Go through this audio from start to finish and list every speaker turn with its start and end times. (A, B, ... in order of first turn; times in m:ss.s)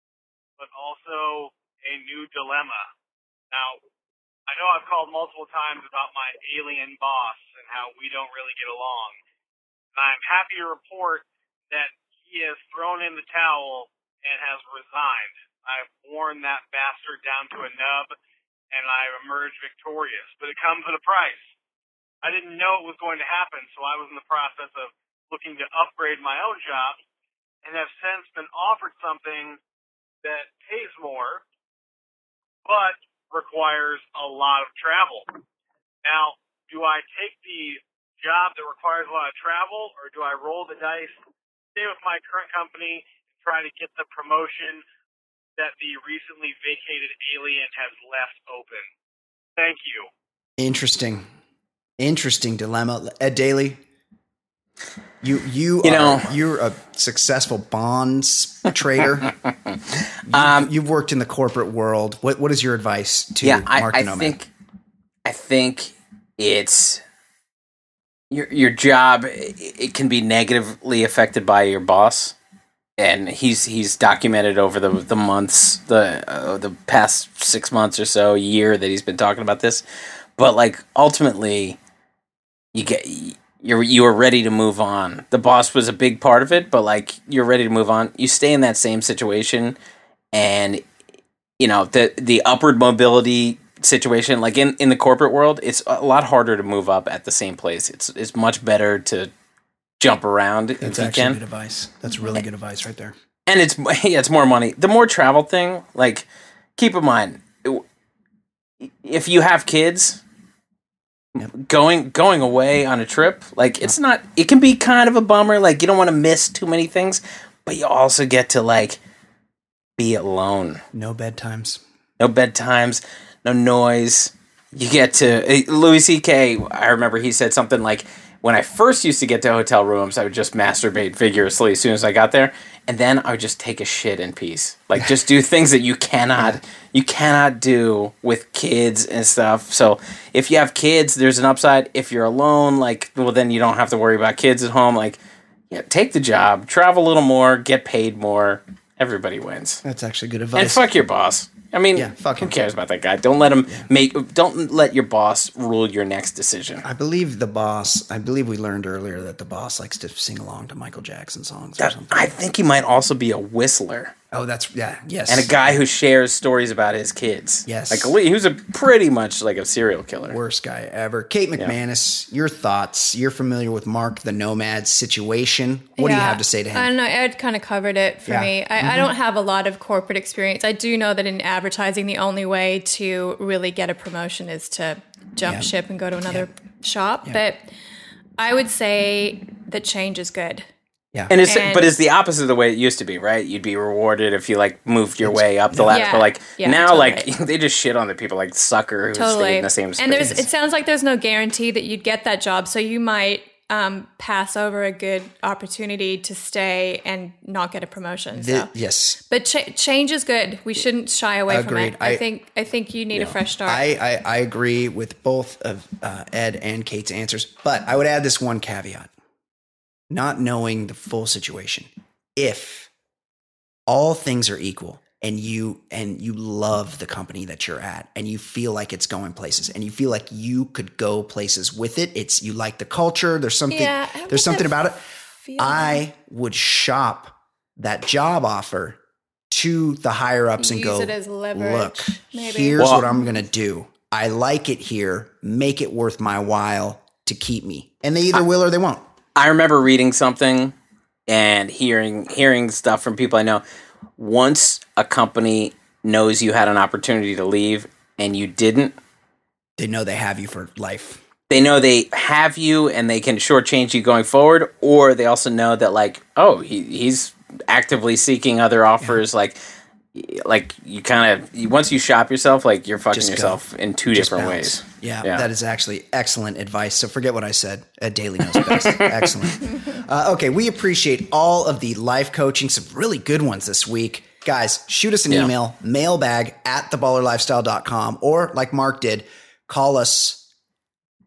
0:00.6-0:02.9 A
0:03.5-0:03.8 A
0:04.5-0:09.2 A
0:09.9-0:18.2 A
0:18.7-0:21.5 A
0:22.2-0:27.0 A
0:27.6-0:29.6 A
0:30.2-0:31.4 A
0:32.6-0:35.3 A
0:36.0-0:41.1 A
0:41.7-0:44.8 A
0:45.6-0:48.9 A
0:49.6-0:50.1 A
0:50.6-0:51.2 B
0:52.0-0:53.8 B
0:55.2-0:59.3 B
0:55.8-0:56.3 C
0:59.7-1:00.7 C
1:00.3-1:04.4 B
1:03.4-1:04.5 C
1:05.2-1:07.0 C
1:08.3-1:12.4 C
1:13.0-1:19.8 C
1:20.4-1:21.8 C
1:22.7-1:29.8 C
1:30.3-1:30.8 C
1:31.6-1:39.3 C
1:40.0-1:41.4 C
1:40.8-1:43.2 B
1:43.5-1:47.8 C
1:48.8-1:50.2 C
1:51.4-1:59.0 C
2:00.0-2:00.8 C
2:00.9-2:01.8 B
2:02.2-2:25.2 C
2:25.7-2:29.8 C
2:29.8-2:30.8 B
2:30.5-2:36.8 C
2:31.9-2:32.5 B
2:36.8-2:42.4 B
2:41.8-2:44.1 C
2:44.3-2:45.8 B
2:45.3-2:50.4 C
2:47.6-2:48.1 B
2:50.3-2:56.9 B
2:56.0-3:07.6 D
2:58.2-2:59.1 B
3:05.4-3:05.7 B
3:08.4-3:10.6 D
3:11.3-3:20.4 C
3:11.4-3:11.9 D
3:15.2-3:16.1 B
3:15.9-3:17.3 D
3:19.1-3:28.7 D
3:20.2-3:20.4 B
3:28.3-3:29.2 B
3:29.3-3:33.8 D
3:31.5-3:32.2 B
3:33.1-3:39.1 B
3:40.1-3:42.9 B
3:43.9-3:55.0 B
3:53.7-3:54.9 D
3:55.4-3:56.0 D
3:55.6-3:59.0 B
3:59.5-4:09.0 B
4:00.6-4:03.2 D
4:02.8-4:03.0 C
4:09.4-4:10.8 C
4:11.3-4:13.6 C
4:14.2-4:18.9 C
4:19.8-4:21.2 B
4:21.5-4:29.6 C
4:30.1-4:35.5 C
4:33.1-4:50.4 B
4:38.5-4:39.3 C